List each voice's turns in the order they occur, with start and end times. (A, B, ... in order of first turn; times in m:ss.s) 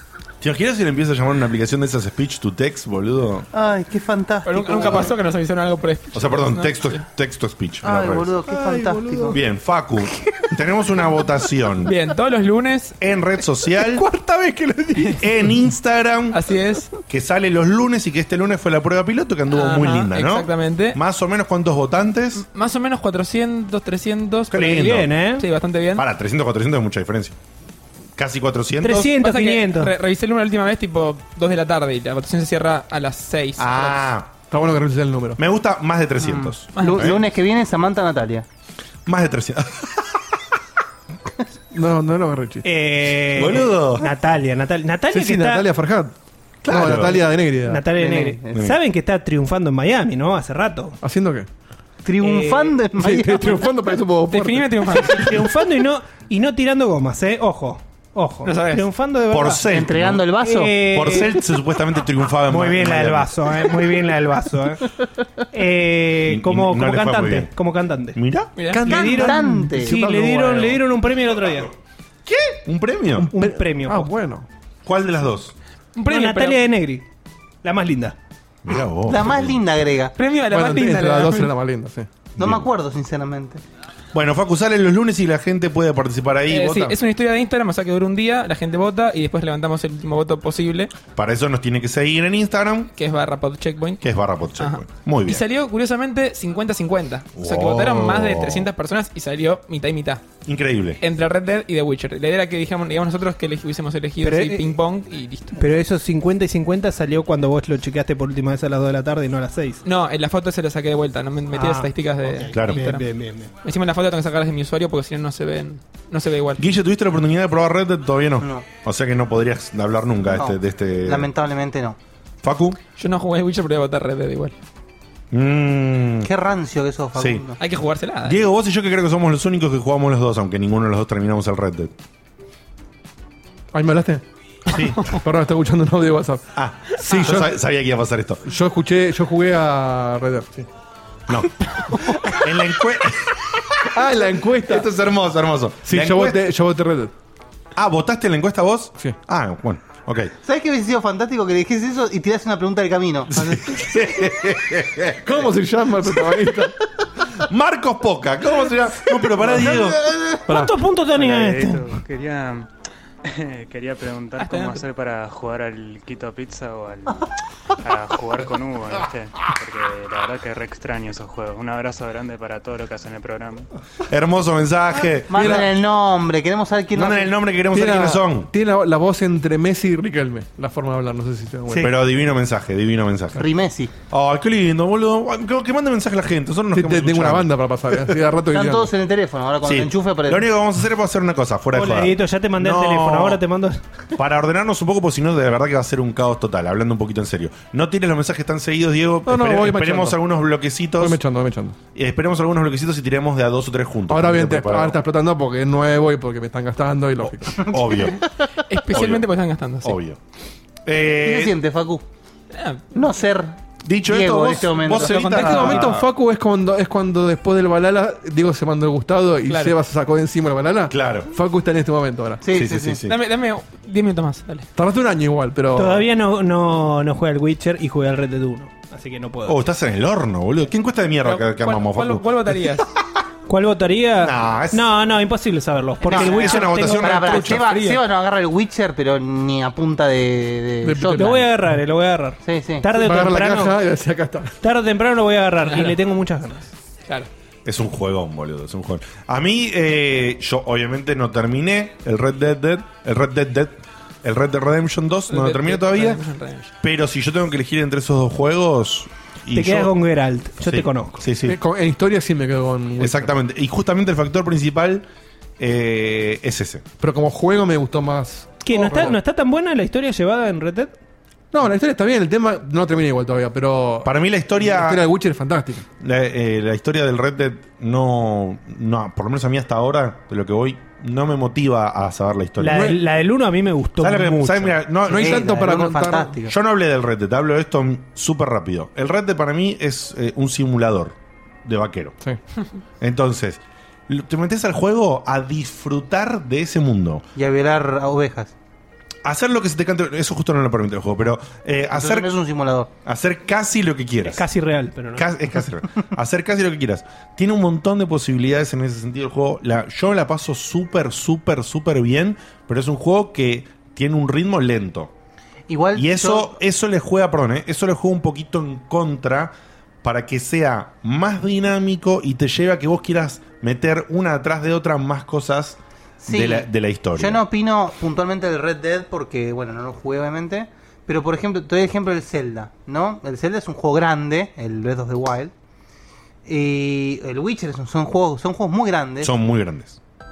0:00.4-0:03.5 A
0:03.5-0:05.1 B
0:04.4-0:07.0 C
0:06.1-0:08.3 A
0:07.8-0:09.4 B
0:08.5-0:09.3 D
0:09.3-0:11.9 A
0:11.8-0:13.0 C
0:13.0-0:14.0 A
0:14.0-0:15.2 D
0:15.2-0:16.4 A
0:16.3-0:16.9 C
0:17.0-0:22.4 A
0:19.5-0:21.0 C
0:22.4-0:24.8 C
0:24.5-0:25.1 A
0:24.6-0:25.4 D
0:25.4-0:26.0 C
0:26.0-0:27.4 A
0:28.2-0:29.1 A
0:28.8-0:29.9 D
0:29.2-0:34.0 C
0:33.6-0:34.3 A
0:34.5-0:35.4 E
0:35.4-0:37.2 A
0:36.2-0:38.4 B
0:36.8-0:37.1 C
0:39.1-0:39.9 A
0:41.7-0:42.6 E
0:42.6-0:45.7 D
0:43.4-0:44.1 A
0:45.1-0:46.1 E
0:46.6-0:47.2 A
0:46.7-0:47.8 E
0:47.7-0:51.0 D
0:48.0-0:48.6 B
0:51.0-0:51.5 E
0:52.0-0:53.6 B
0:52.2-0:52.7 D
0:53.0-0:55.1 E
0:54.3-0:55.3 C
0:55.0-0:59.8 D
0:58.4-0:58.9 C
0:59.3-1:00.3 A
0:59.7-1:00.9 B
1:00.4-1:01.4 D
1:00.9-1:03.3 A
1:02.5-1:04.8 D
1:05.5-1:08.2 D
1:06.3-1:07.5 A
1:08.2-1:08.5 A
1:08.6-1:09.2 C
1:08.7-1:11.7 D
1:08.9-1:10.0 B
1:08.9-1:10.8 E
1:12.3-1:13.3 A
1:13.2-1:14.5 E
1:13.3-1:14.1 D
1:14.9-1:15.6 A
1:16.0-1:16.6 C
1:16.1-1:17.1 D
1:17.6-1:18.2 D
1:18.6-1:19.6 A
1:19.1-1:20.2 B
1:20.2-1:21.5 C
1:20.5-1:22.1 E
1:22.4-1:22.7 A
1:22.4-1:23.6 B
1:24.1-1:27.0 A
1:26.5-1:31.0 C
1:31.1-1:32.9 A
1:33.0-1:34.0 C
1:34.0-1:35.4 A
1:34.6-1:40.2 C
1:37.4-1:38.7 A
1:40.4-1:41.0 A
1:41.0-1:45.6 C
1:44.2-1:44.7 D
1:45.5-1:49.8 D
1:49.8-1:53.0 C
1:51.5-1:53.5 D
1:52.5-1:52.8 A
1:53.6-1:56.6 C
1:56.6-2:01.3 A
2:00.3-2:02.0 B
2:02.4-2:02.8 A
2:03.0-2:04.6 C
2:05.3-2:06.3 A
2:06.2-2:07.6 B
2:07.2-2:07.4 A
2:07.6-2:08.4 C
2:08.2-2:11.9 A
2:13.7-2:14.2 E
2:14.7-2:15.0 A
2:15.1-2:16.5 E
2:16.6-2:18.4 A
2:17.0-2:17.5 E
2:18.5-2:20.7 E
2:22.3-2:23.4 A
2:23.9-2:24.9 E
2:24.7-2:26.4 A
2:25.9-2:27.1 E
2:27.8-2:30.3 A
2:30.4-2:33.5 B
2:33.3-2:35.4 A
2:35.2-2:36.7 E
2:37.4-2:40.1 A
2:39.6-2:39.8 D
2:40.5-2:41.9 D
2:41.1-2:42.7 F
2:43.2-2:47.3 F
2:44.4-2:44.8 C
2:47.8-2:53.7 F
2:54.1-2:55.7 A
2:55.3-2:57.3 B
2:55.3-2:55.7 E
2:56.9-2:58.5 A
2:57.7-3:01.9 E
3:01.7-3:03.4 A
3:03.4-3:03.9 B
3:04.1-3:08.1 A
3:06.7-3:08.9 E
3:08.5-3:10.5 B
3:09.6-3:13.4 A
3:11.7-3:13.8 D
3:14.2-3:21.2 A
3:19.3-3:20.2 E
3:21.0-3:21.8 E
3:22.0-3:25.0 A
3:24.1-3:27.6 E
3:27.6-3:28.2 A
3:28.7-3:30.0 C
3:28.9-3:29.3 A
3:29.8-3:30.2 A
3:30.9-3:31.5 A
3:31.2-3:32.0 B
3:32.5-3:32.9 C
3:32.9-3:33.6 B
3:33.8-3:36.1 A
3:34.1-3:35.4 B
3:35.0-3:36.0 C
3:35.3-3:42.4 E
3:39.5-3:39.8 C
3:40.9-3:41.3 A
3:42.4-3:43.0 B
3:42.5-3:43.2 A
3:43.1-3:44.7 C
3:44.8-3:46.0 E
3:45.8-3:49.6 D
3:49.5-3:52.8 A
3:51.2-3:52.8 C
3:53.5-3:57.1 D
3:54.2-3:54.9 A
3:56.0-4:01.4 B
3:56.1-3:57.7 A
3:56.8-3:58.0 C
4:00.8-4:01.4 E
4:01.2-4:03.8 D
4:02.4-4:02.9 B
4:03.0-4:04.5 E
4:04.6-4:06.7 D
4:05.6-4:06.0 C
4:07.6-4:16.2 A
4:15.3-4:16.7 C
4:16.8-4:19.9 A
4:19.5-4:21.2 D
4:20.6-4:21.6 A
4:21.5-4:23.3 E
4:23.0-4:25.1 A
4:25.6-4:26.8 A
4:27.0-4:29.2 E
4:28.6-4:30.9 D
4:31.5-4:35.9 E
4:34.0-4:35.0 A
4:36.0-4:43.0 A
4:42.6-4:44.8 D
4:44.0-4:45.6 A
4:45.1-4:46.3 E
4:45.1-4:46.5 B
4:46.4-4:52.2 A
4:53.0-4:57.3 A
4:57.4-4:58.5 B
4:59.2-5:02.3 A
5:02.0-5:02.9 B
5:03.0-5:04.4 A
5:04.2-5:05.4 D
5:05.2-5:15.1 A
5:15.7-5:16.5 B
5:16.0-5:27.4 A
5:26.2-5:35.5 B
5:36.4-5:39.3 B
5:39.2-5:40.0 A